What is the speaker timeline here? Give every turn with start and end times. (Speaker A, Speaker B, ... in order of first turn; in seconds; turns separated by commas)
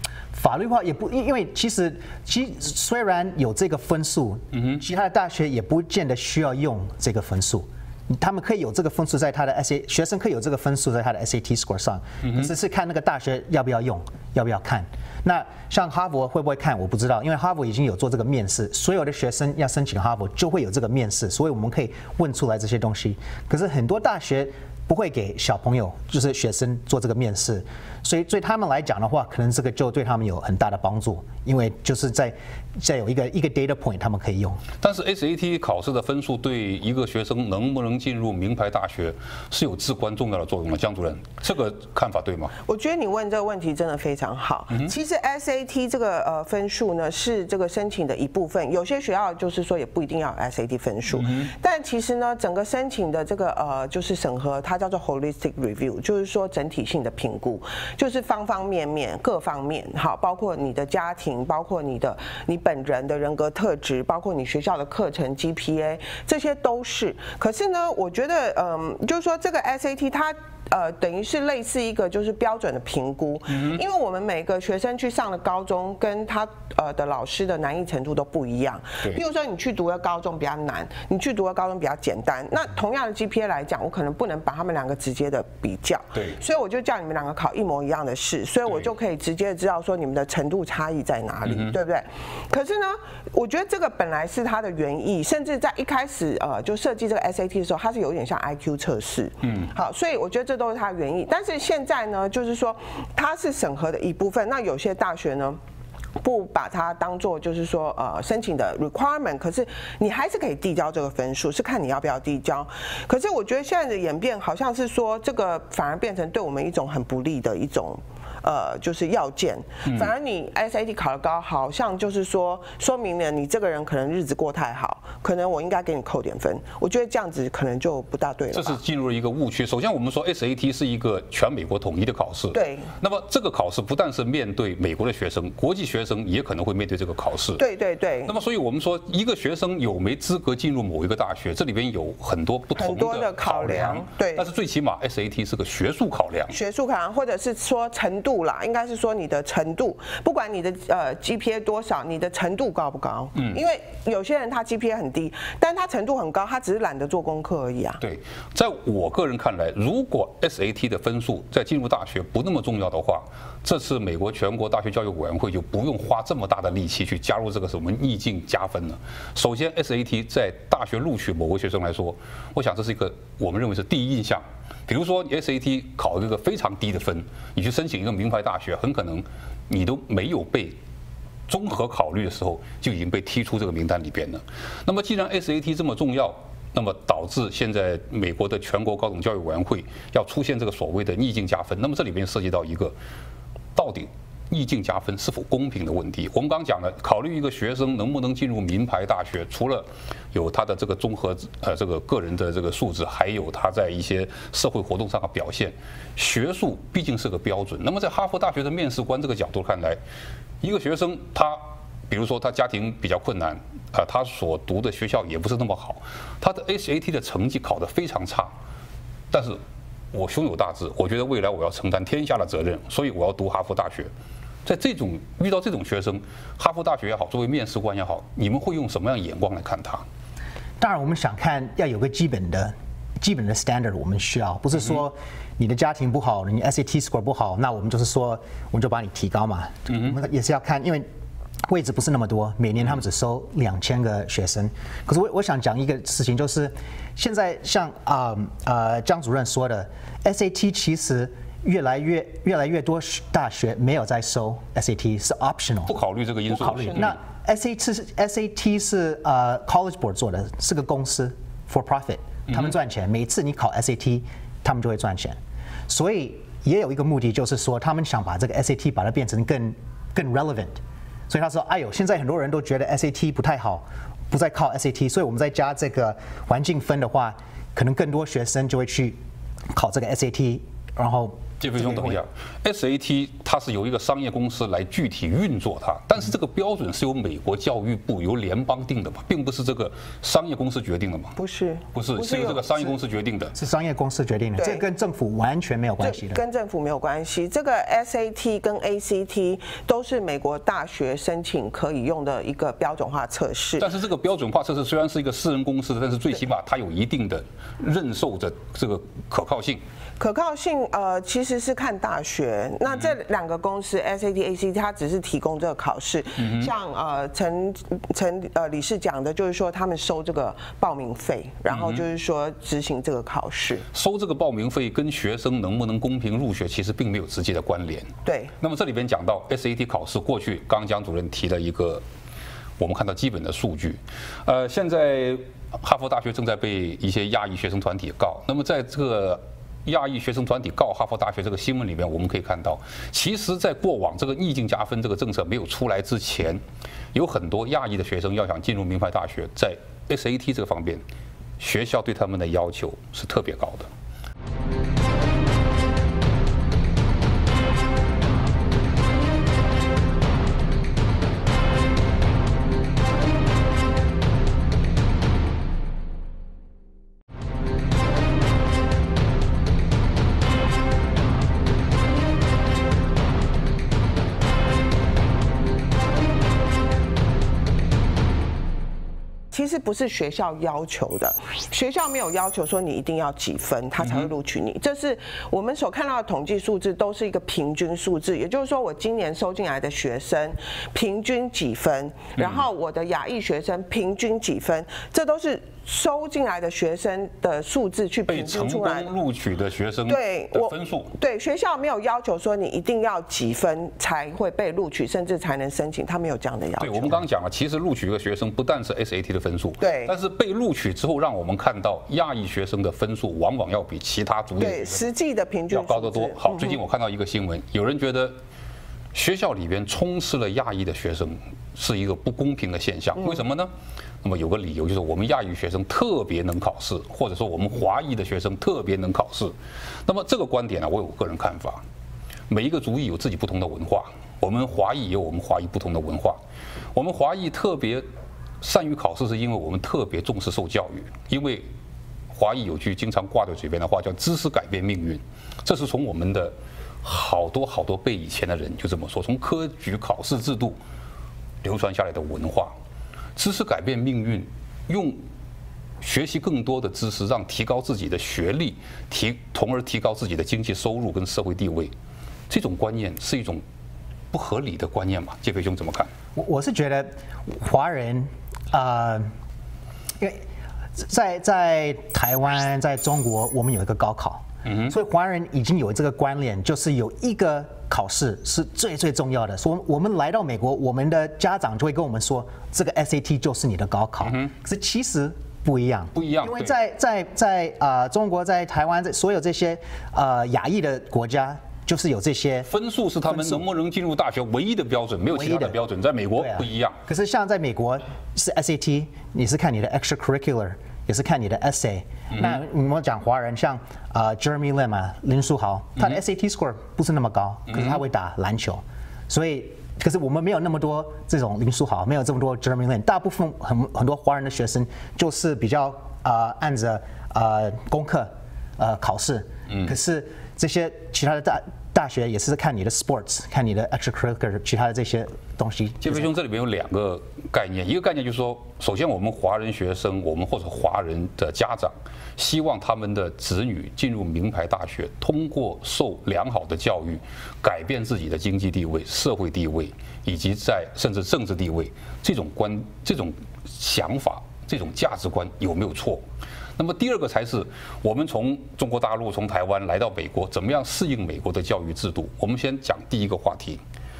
Speaker A: 0.3-34.6, Speaker B: 4.5-4.8, Speaker B: 12.2-12.5, Speaker B: 34.8-42.5, Speaker C: 42.6-105.6, Speaker B: 51.1-51.5, Speaker B: 73.5-73.8, Speaker B: 91.5-91.8, Speaker B: 99.4-99.7, Speaker C: 106.2-128.8, Speaker B: 128.5-137.6, Speaker C: 132.5-132.9, Speaker C: 137.6-138.3, Speaker B: 138.3-146.6, Speaker C: 142.8-144.4, Speaker C: 146.5-158.0, Speaker B: 158.0-180.8, Speaker B: 181.5-192.9, Speaker B: 193.8-210.0, Speaker B: 210.6-218.5, Speaker B: 219.3-219.6, Speaker B: 220.1-224.1, Speaker B: 224.7-230.0, Speaker A: 230.8-241.1, Speaker A: 241.7-255.9, Speaker B: 255.9-257.2, Speaker A: 256.5-265.4, Speaker A: 265.9-279.2, Speaker A: 279.7-282.2, Speaker B: 281.6-291.4, Speaker C: 291.4-292.9, Speaker B: 291.9-293.6, Speaker A: 293.6-296.4, Speaker C: 294.6-294.8, Speaker C: 296.0-303.9, Speaker B: 303.8-309.8, Speaker C: 310.2-323.9, Speaker B: 316.4-316.7, Speaker B: 321.7-322.0, Speaker B: 323.9-332.0, Speaker C: 328.2-328.5, Speaker B: 332.8-346.6, Speaker B: 347.1-351.0, Speaker B: 351.6-353.9, Speaker C: 379.5-399.1, Speaker B: 384.0-384.3, Speaker B: 392.4-392.6, Speaker B: 398.3-401.1, Speaker C: 400.1-407.2, Speaker B: 406.8-415.0, Speaker C: 409.8-410.1, Speaker C: 414.6-416.8, Speaker B: 415.7-418.4, Speaker B: 419.1-423.7, Speaker B: 424.2-429.5, Speaker B: 430.1-431.8, Speaker B: 432.5-436.4, Speaker B: 436.9-438.0, Speaker B: 438.6-441.7, Speaker B: 442.3-450.8, Speaker B: 451.6-452.7, Speaker B: 453.4-455.2, Speaker B: 456.0-461.9, Speaker B: 462.5-463.6, Speaker B: 464.3-466.1, Speaker A: 466.4-469.3, Speaker A: 470.9-492.7, Speaker B: 474.6-474.9, Speaker B: 484.2-484.5, Speaker B: 486.1-486.7, Speaker B: 492.7-497.0, Speaker A: 493.3-493.6, Speaker A: 495.3-495.8, Speaker A: 496.4-526.3, Speaker B: 507.7-508.0, Speaker B: 526.0-546.2, Speaker B: 546.8-553.8